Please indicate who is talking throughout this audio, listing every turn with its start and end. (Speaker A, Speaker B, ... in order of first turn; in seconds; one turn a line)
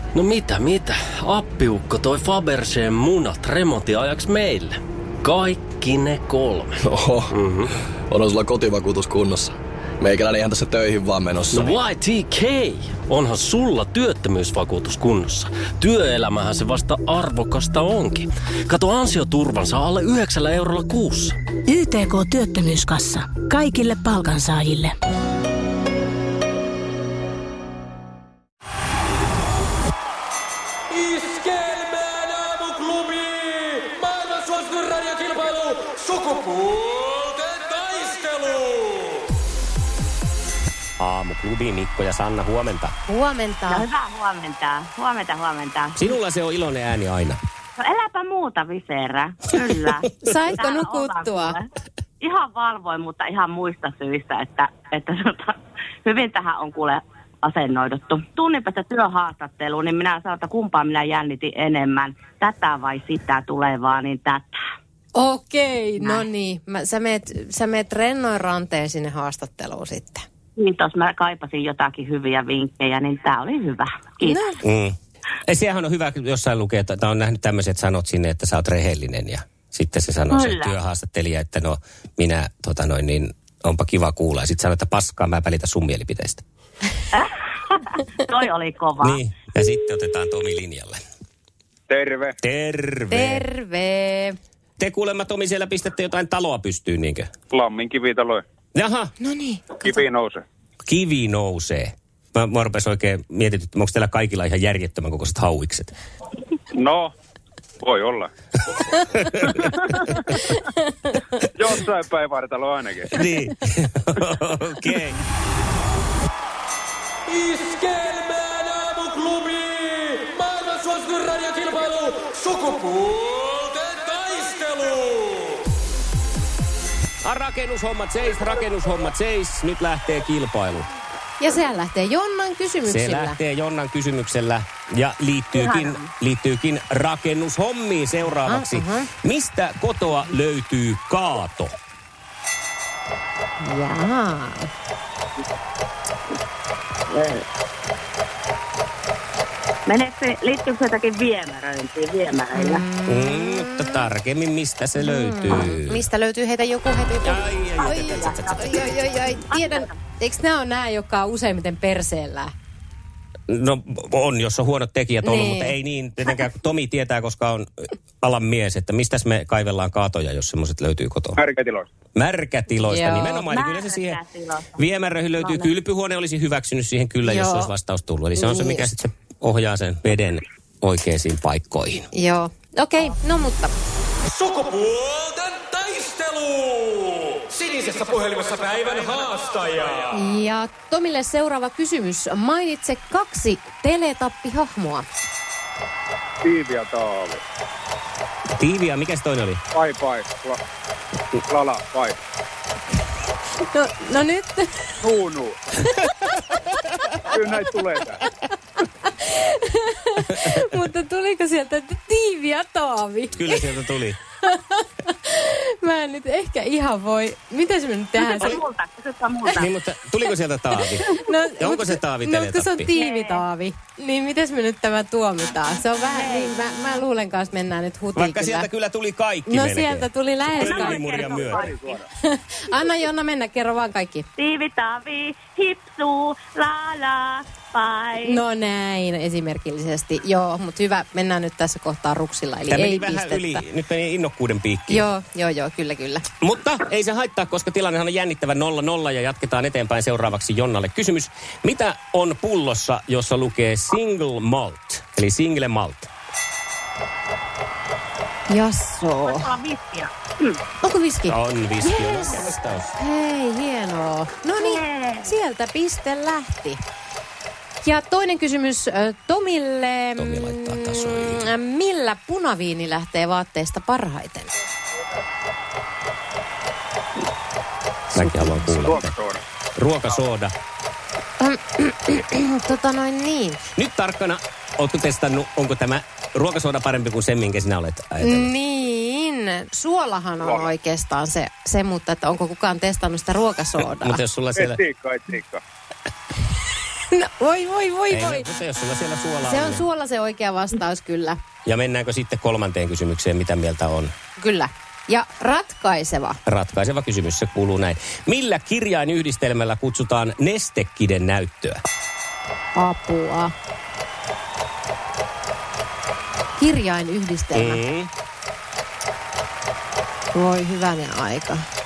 Speaker A: 0.1-6.8
Speaker B: 6.8-7.3
Speaker A: 7.3-7.7
Speaker B: 8.1-11.8
Speaker A: 11.5-21.4
Speaker C: 21.6-25.0
Speaker D: 30.9-39.2
Speaker E: 41.0-42.9
Speaker F: 43.1-43.9
Speaker G: 43.7-46.0
Speaker E: 46.0-47.4
Speaker G: 47.8-51.6
Speaker F: 50.2-51.6
Speaker G: 52.2-64.5
Speaker F: 65.1-70.2
Speaker G: 70.6-74.5
Speaker F: 74.2-74.6
Speaker E: 74.6-74.9
Speaker E: 75.5-86.4
Speaker G: 80.3-80.7
Speaker G: 87.8-89.2
Speaker E: 89.0-91.0
Speaker H: 91.9-92.4
Speaker E: 92.4-93.4
Speaker F: 93.1-94.3
Speaker E: 94.8-97.3
Speaker H: 97.5-98.4
Speaker E: 98.7-99.1
Speaker F: 99.2-100.0
Speaker H: 99.8-100.4
Speaker E: 100.9-105.9
Speaker H: 106.7-107.1
Speaker H: 107.8-108.3
Speaker E: 109.0-110.0
Speaker H: 109.6-110.1
Speaker H: 111.5-113.2
Speaker E: 113.1-115.2
Speaker D: 117.3-125.6
Speaker E: 127.2-130.9
Speaker F: 131.4-133.4
Speaker E: 132.8-141.7
Speaker G: 135.6-136.0
Speaker F: 138.4-139.1
Speaker F: 143.6-144.7
Speaker G: 147.1-147.4
Speaker G: 149.9-152.8
Speaker F: 152.5-154.1
Speaker E: 153.1-156.0
Speaker F: 154.9-162.5
Speaker E: 157.2-159.2
Speaker G: 157.9-159.9
Speaker E: 163.5-167.7
Speaker F: 165.2-165.7
Speaker E: 168.2-171.4
Speaker H: 171.4-171.9
Speaker E: 172.1-174.2
Speaker F: 172.8-173.5
Speaker G: 173.5-174.8
Speaker E: 174.8-182.1
Speaker G: 175.4-175.7
Speaker F: 177.2-177.7
Speaker F: 178.4-178.9
Speaker F: 182.1-183.7
Speaker D: 184.3-190.2
Speaker F: 190.1-195.1
Speaker H: 196.4-197.4
Speaker E: 198.6-199.6
Speaker H: 199.7-200.6
Speaker H: 201.5-202.2
Speaker F: 203.7-204.9
Speaker H: 205.0-205.6
Speaker H: 207.3-208.2
Speaker F: 208.8-213.6
Speaker E: 213.3-214.2
Speaker F: 214.4-218.6
Speaker G: 218.2-219.7
Speaker E: 219.6-221.1
Speaker F: 220.8-228.7
Speaker E: 221.6-222.9
Speaker G: 222.9-223.4
Speaker G: 226.1-226.5
Speaker E: 228.1-230.1
Speaker F: 229.5-231.7
Speaker G: 230.6-231.5
Speaker H: 230.6-232.1
Speaker E: 230.6-231.7
Speaker F: 232.2-234.2
Speaker G: 234.4-238.4
Speaker F: 238.2-243.6
Speaker E: 242.7-245.1
Speaker F: 244.9-246.2
Speaker E: 246.4-256.1
Speaker F: 258.5-259.5
Speaker G: 259.2-260.5
Speaker F: 260.8-266.8
Speaker E: 261.3-262.9
Speaker G: 264.6-265.3
Speaker F: 267.8-274.5
Speaker E: 270.2-271.5
Speaker E: 278.1-279.1
Speaker F: 278.1-278.8
Speaker H: 278.8-279.4
Speaker E: 279.8-280.5
Speaker F: 281.4-283.6
Speaker E: 283.8-288.5
Speaker F: 288.2-294.2
Speaker H: 290.4-290.7
Speaker E: 293.8-294.8
Speaker H: 294.6-295.6
Speaker F: 297.1-298.4
Speaker E: 298.1-299.8
Speaker F: 299.4-301.4
Speaker E: 301.6-304.1
Speaker F: 304.4-306.4
Speaker E: 306.4-311.8
Speaker F: 312.7-313.5
Speaker F: 316.6-317.8
Speaker E: 317.5-318.1
Speaker F: 320.3-321.6